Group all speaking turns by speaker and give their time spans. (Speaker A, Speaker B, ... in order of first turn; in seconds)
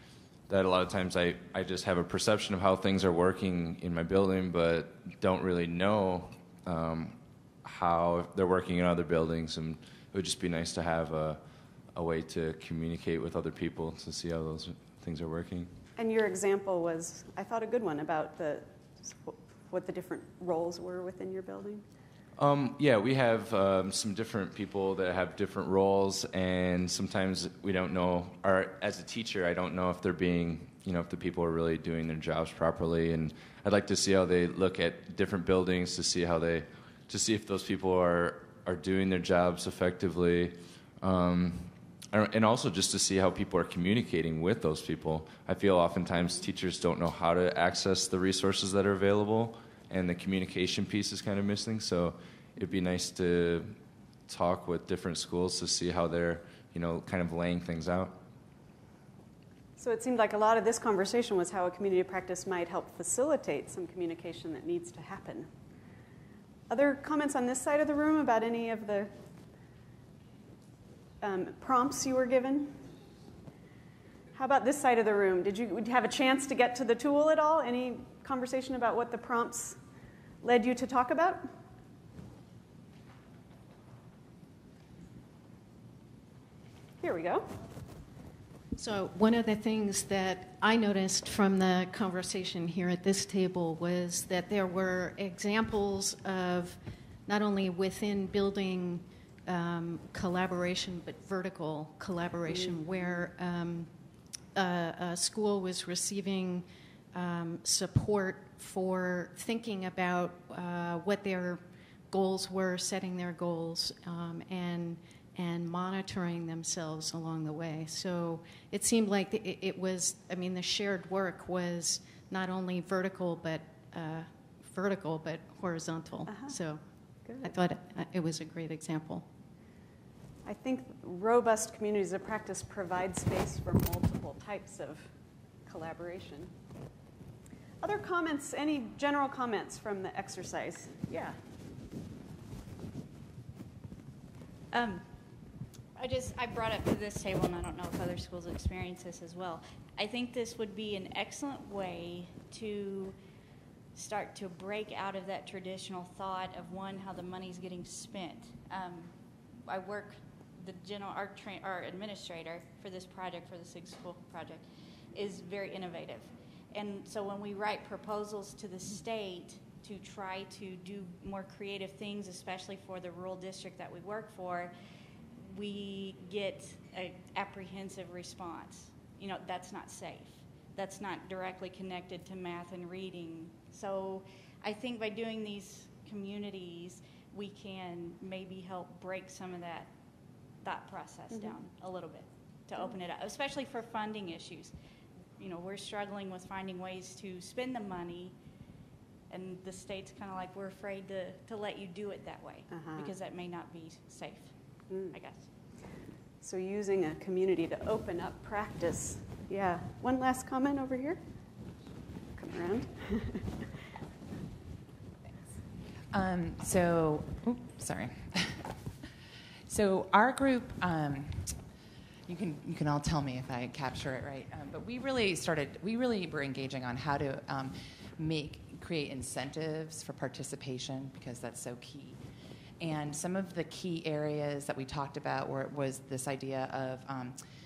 Speaker A: 0.5-11.4, 11.9-15.7, 22.4-53.7, 54.3-58.1
Speaker B: 15.9-21.8, 59.8-65.5, 66.7-69.1, 71.2-72.8, 74.3-79.8, 80.4-81.5, 87.0-87.5, 102.5-103.1, 126.3-126.5, 127.2-127.5, 130.4-135.1, 135.7-136.5, 137.8-141.3, 191.3-191.6, 202.7-203.1, 204.9-205.1, 206.4-211.2, 212.3-213.4
Speaker C: 88.7-126.8, 127.4-129.3
Speaker D: 144.7-145.1, 145.9-153.2, 153.9-174.7, 175.4-189.9, 190.6-194.7, 195.4-198.3, 199.3-205.5
Speaker E: 216.1-218.7, 219.7-221.6, 222.3-232.2, 232.8-237.4